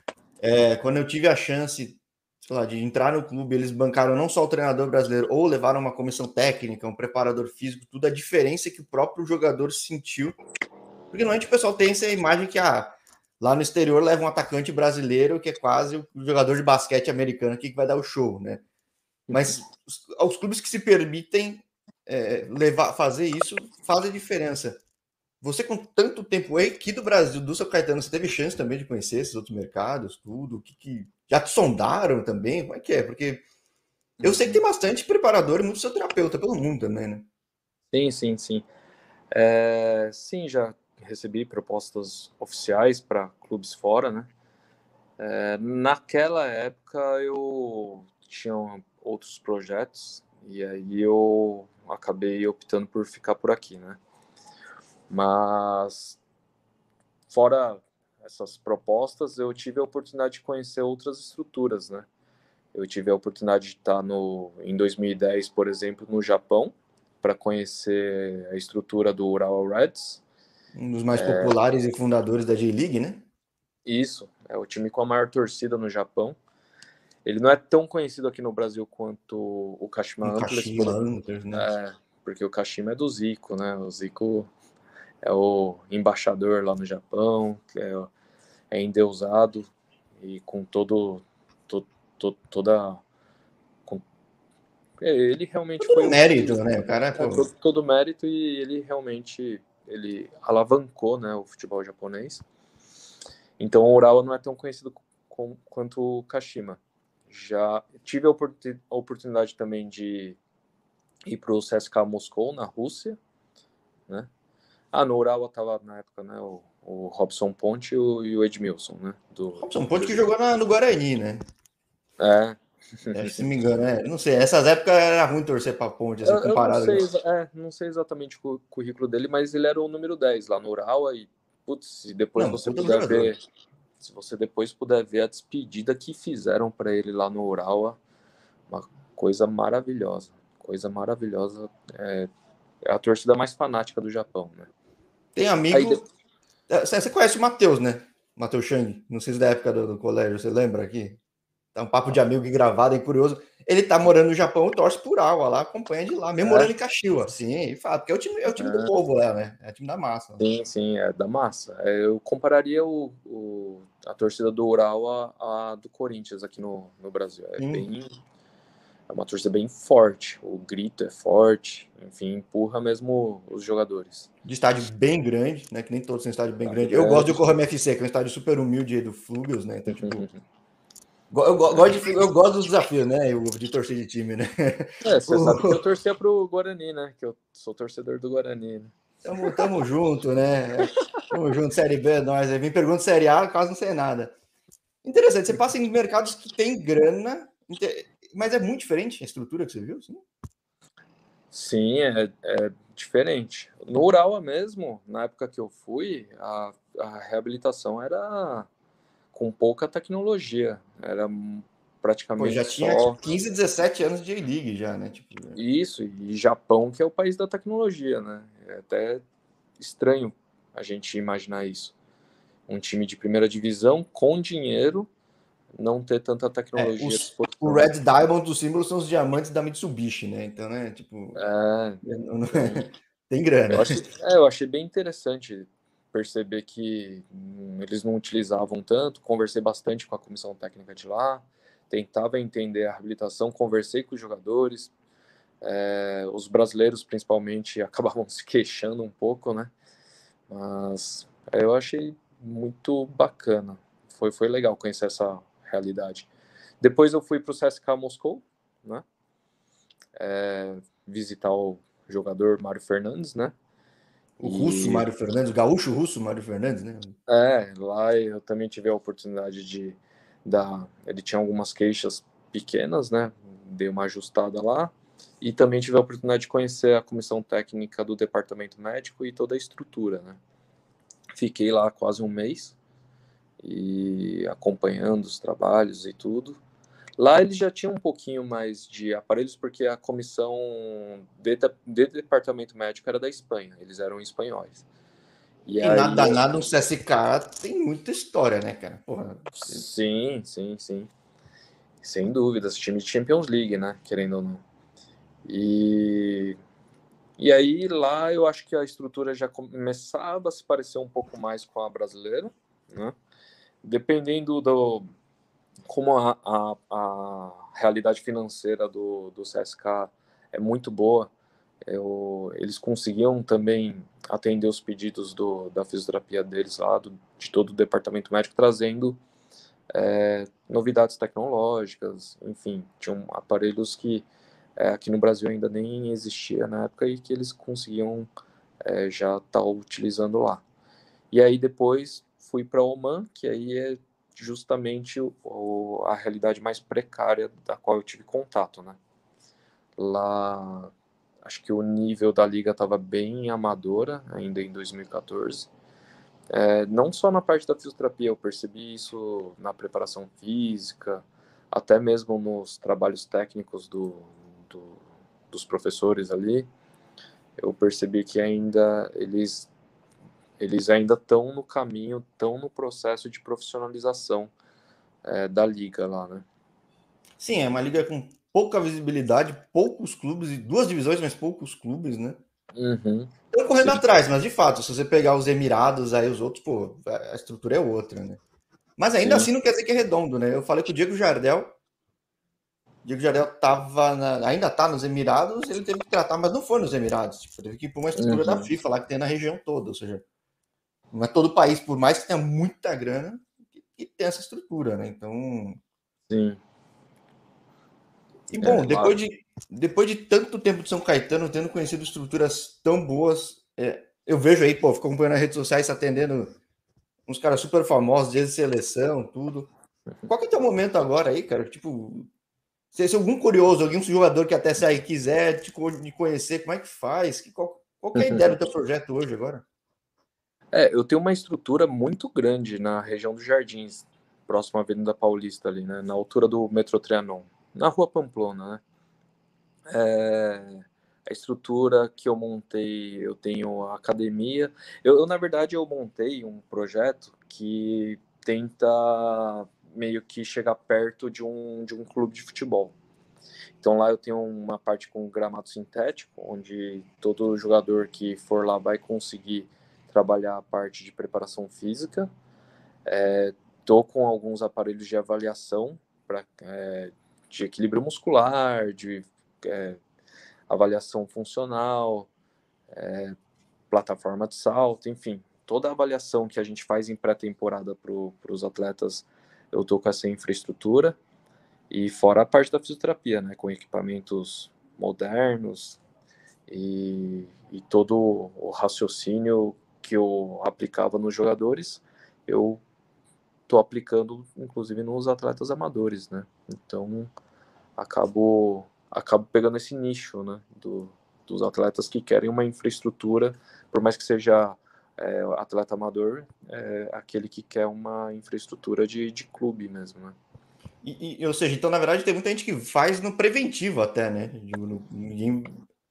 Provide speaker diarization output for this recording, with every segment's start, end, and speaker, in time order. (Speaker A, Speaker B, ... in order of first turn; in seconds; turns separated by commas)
Speaker A: 0.4-10.4, Speaker A: 11.1-18.6, Speaker B: 19.3-19.6, Speaker A: 19.3-24.8, Speaker A: 25.4-33.4, Speaker B: 34.2-34.6, Speaker A: 34.2-37.3, Speaker B: 37.9-38.6, Speaker B: 39.3-44.3, Speaker B: 45.2-54.0, Speaker B: 55.1-56.2, Speaker B: 57.3-62.1, Speaker B: 62.7-70.2, Speaker A: 70.8-73.2, Speaker B: 71.2-71.6, Speaker B: 73.8-76.4, Speaker B: 77.2-84.5, Speaker A: 80.2-81.7, Speaker B: 85.2-88.1, Speaker B: 88.7-93.0, Speaker B: 95.0-102.4, Speaker A: 95.8-97.5, Speaker B: 103.6-110.4, Speaker B: 111.2-113.2, Speaker B: 114.9-120.2, Speaker A: 119.6-121.5, Speaker B: 122.2-123.4, Speaker A: 123.1-127.0, Speaker B: 126.2-133.4, Speaker A: 132.4-133.3, Speaker B: 134.0-138.0, Speaker B: 138.7-142.3, Speaker B: 142.8-144.7, Speaker A: 145.3-146.0, Speaker B: 145.7-146.0, Speaker A: 146.7-151.2, Speaker A: 151.8-160.4, Speaker B: 156.4-156.7, Speaker B: 158.6-158.9, Speaker B: 160.4-168.1, Speaker A: 167.6-167.9, Speaker B: 169.1-174.3, Speaker A: 174.4-180.3, Speaker B: 176.7-177.5, Speaker B: 179.9-180.3, Speaker A: 181.3-185.8, Speaker B: 185.0-189.7, Speaker A: 189.2-194.3, Speaker A: 195.0-200.2, Speaker B: 201.5-208.7, Speaker B: 209.3-213.2, Speaker A: 212.4-215.6, Speaker B: 215.6-219.2, Speaker B: 219.8-221.9, Speaker B: 222.7-225.1, Speaker B: 225.8-227.9, Speaker A: 226.8-231.4, Speaker B: 231.3-232.0, Speaker A: 232.0-234.1, Speaker B: 232.5-232.8, Speaker B: 233.7-244.9, Speaker B: 245.6-249.7, Speaker B: 250.5-256.3, Speaker B: 256.8-259.1, Speaker B: 260.2-263.5, Speaker A: 264.4-267.2, Speaker B: 264.4-265.1, Speaker B: 267.3-280.4, Speaker B: 281.4-282.8, Speaker B: 283.6-286.6, Speaker B: 287.2-294.8, Speaker B: 295.7-296.4, Speaker A: 295.8-299.9, Speaker B: 299.6-301.1, Speaker B: 302.0-304.6, Speaker B: 305.4-306.6, Speaker B: 307.4-313.1, Speaker B: 313.8-315.1, Speaker B: 315.9-321.3, Speaker B: 321.9-329.2, Speaker B: 329.9-334.3, Speaker B: 334.8-338.3, Speaker B: 338.8-340.6, Speaker B: 341.3-349.0, Speaker B: 350.0-350.9, Speaker B: 351.4-355.7, Speaker B: 356.5-366.7, Speaker B: 367.6-369.7, Speaker B: 370.6-374.5, Speaker B: 375.2-376.4, Speaker A: 377.4-382.4, Speaker B: 382.7-384.0, Speaker A: 383.5-388.4, Speaker A: 389.0-391.7, Speaker B: 389.2-389.5, Speaker A: 393.1-400.2, Speaker B: 398.2-398.7, Speaker A: 401.1-405.8, Speaker B: 406.3-406.6, Speaker A: 408.5-416.6, Speaker B: 408.6-409.2, Speaker A: 417.3-419.7, Speaker A: 420.3-422.3, Speaker A: 422.9-429.6, Speaker B: 428.1-428.5, Speaker B: 430.7-438.8, Speaker B: 439.9-452.9, Speaker B: 453.8-462.3, Speaker B: 463.1-470.0, Speaker B: 470.7-472.3, Speaker B: 472.9-473.4, Speaker B: 473.9-481.2, Speaker B: 481.9-486.0, Speaker B: 486.7-492.8, Speaker B: 493.7-497.3, Speaker B: 498.0-510.4, Speaker A: 511.0-515.8